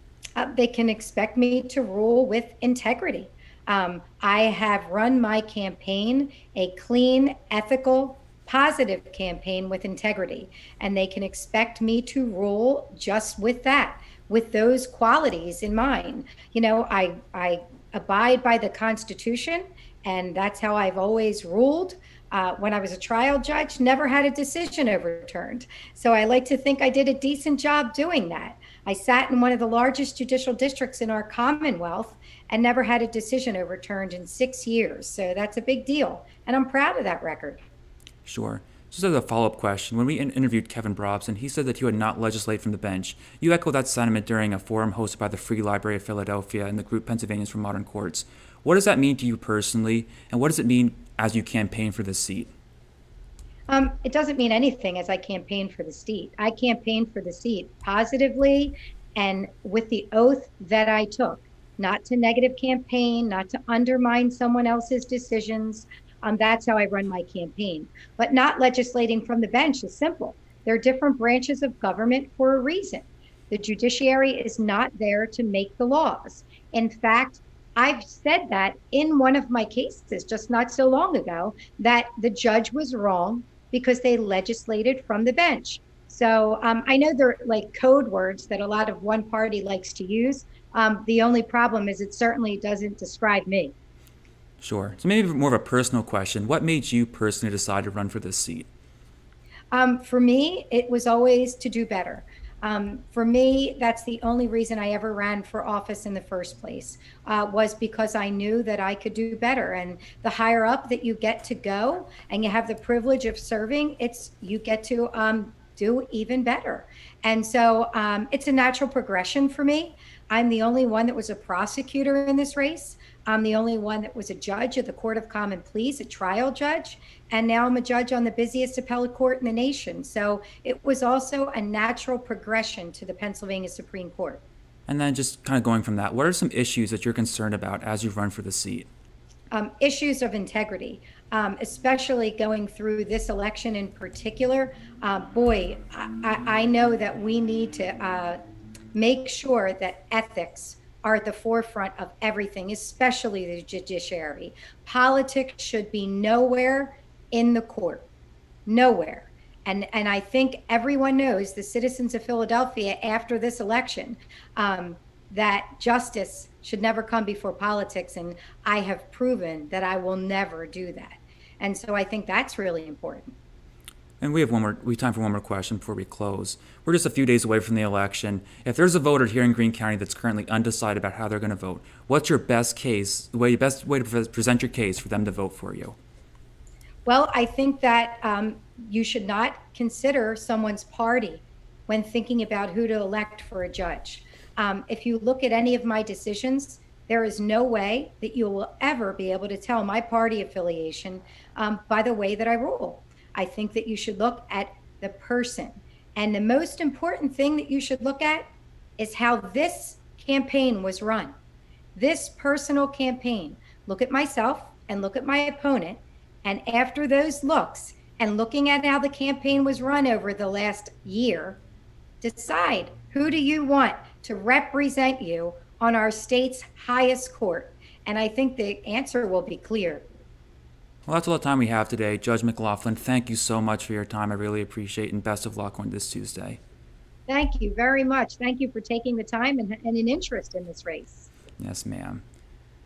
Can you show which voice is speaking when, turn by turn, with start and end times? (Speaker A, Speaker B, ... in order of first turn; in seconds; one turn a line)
Speaker A: 0.4-37.6
Speaker B: 38.2-52.5
Speaker A: 53.7-93.7
Speaker B: 94.6-98.7
Speaker A: 99.7-134.4
Speaker B: 134.9-138.9
Speaker A: 139.5-148.4
Speaker A: 148.9-158.1
Speaker A: 158.7-173.3
Speaker B: 174.2-186.0
Speaker A: 187.1-208.5
Speaker A: 209.0-211.3
Speaker A: 211.9-221.6
Speaker A: 222.2-230.1
Speaker B: 231.1-236.6
Speaker A: 237.3-241.3
Speaker B: 241.6-242.2